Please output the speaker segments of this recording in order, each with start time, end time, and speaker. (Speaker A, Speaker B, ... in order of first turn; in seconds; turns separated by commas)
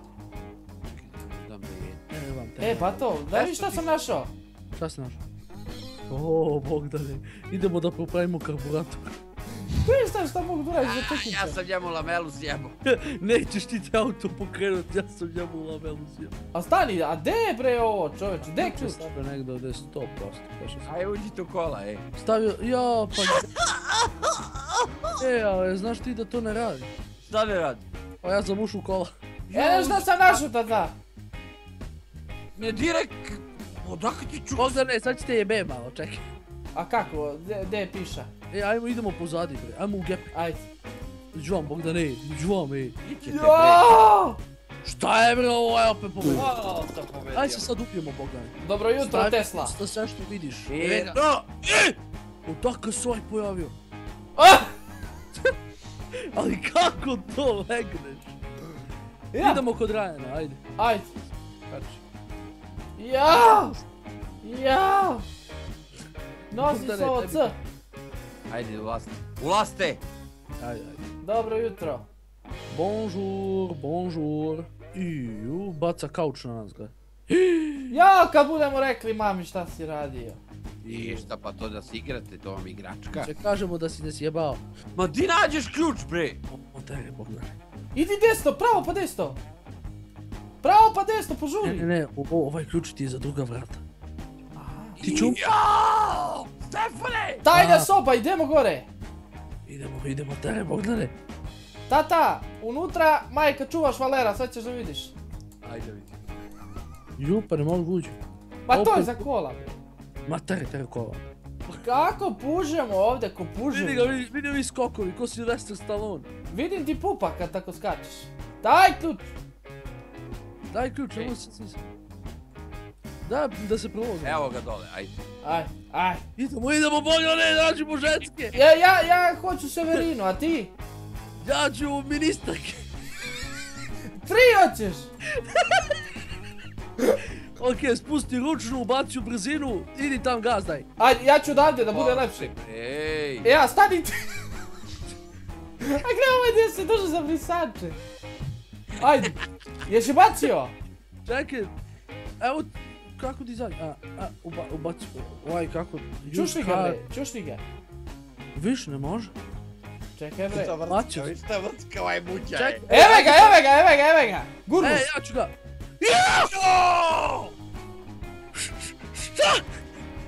Speaker A: 0.9-2.0, Speaker B: 2.1-3.1, Speaker C: 2.6-4.3, Speaker A: 3.3-3.9, Speaker B: 4.8-5.2, Speaker B: 6.1-9.1, Speaker C: 9.8-11.6, Speaker A: 10.8-12.8, Speaker B: 12.8-16.3, Speaker C: 16.5-19.1, Speaker B: 18.4-20.9, Speaker A: 20.9-22.0, Speaker B: 22.1-23.5, Speaker A: 23.2-25.1, Speaker B: 25.2-26.9, Speaker A: 27.2-27.8, Speaker B: 28.2-30.4, Speaker C: 29.5-30.9, Speaker A: 32.5-34.8, Speaker B: 34.5-36.2, Speaker C: 36.7-38.3, Speaker B: 38.5-40.3, Speaker C: 40.3-40.7, Speaker B: 41.3-43.0, Speaker A: 43.0-43.8, Speaker C: 43.2-44.4, Speaker B: 44.8-46.5, Speaker A: 46.2-47.7, Speaker B: 47.3-51.2, Speaker C: 48.6-49.7, Speaker A: 50.7-51.9, Speaker B: 52.5-53.7, Speaker C: 54.4-54.7, Speaker B: 56.2-58.4, Speaker C: 59.3-59.6, Speaker B: 59.4-60.6, Speaker C: 60.8-61.1, Speaker B: 61.7-62.0, Speaker C: 63.0-63.8, Speaker C: 64.4-65.2, Speaker B: 66.5-67.5, Speaker C: 66.5-67.5, Speaker A: 68.5-70.0, Speaker B: 70.6-71.0, Speaker C: 71.2-72.0, Speaker B: 72.7-78.0, Speaker C: 77.9-80.4, Speaker B: 80.8-81.3, Speaker A: 80.8-83.3, Speaker B: 83.1-84.6, Speaker A: 84.9-86.4, Speaker B: 86.5-87.5, Speaker C: 87.9-89.4, Speaker C: 90.6-91.9, Speaker B: 91.6-93.8, Speaker C: 94.5-95.0, Speaker B: 95.0-95.4, Speaker A: 95.0-97.4, Speaker C: 97.4-98.9, Speaker B: 97.5-97.9, Speaker B: 99.7-101.1, Speaker C: 101.9-105.1, Speaker A: 105.6-106.2, Speaker B: 107.2-108.2, Speaker C: 108.7-109.7, Speaker B: 108.7-109.3, Speaker B: 110.2-111.8, Speaker C: 111.8-114.2, Speaker B: 113.7-116.3, Speaker C: 116.5-119.3, Speaker B: 120.7-121.8, Speaker B: 123.2-124.5, Speaker A: 124.2-125.1, Speaker C: 125.4-126.2, Speaker B: 126.4-128.6, Speaker C: 128.5-130.7, Speaker B: 131.4-132.8, Speaker C: 134.2-135.1, Speaker B: 137.6-140.9, Speaker C: 141.0-142.5, Speaker A: 141.9-143.5, Speaker C: 143.4-144.4, Speaker C: 145.8-148.0, Speaker C: 149.0-150.7, Speaker B: 151.2-151.7, Speaker B: 152.4-157.0, Speaker C: 156.3-157.6, Speaker B: 158.5-159.3, Speaker C: 160.2-160.8, Speaker A: 160.4-162.8, Speaker B: 160.9-161.3, Speaker B: 162.5-163.6, Speaker C: 162.9-165.1, Speaker B: 164.8-165.5, Speaker A: 166.0-167.5, Speaker B: 166.1-166.5, Speaker B: 168.6-169.6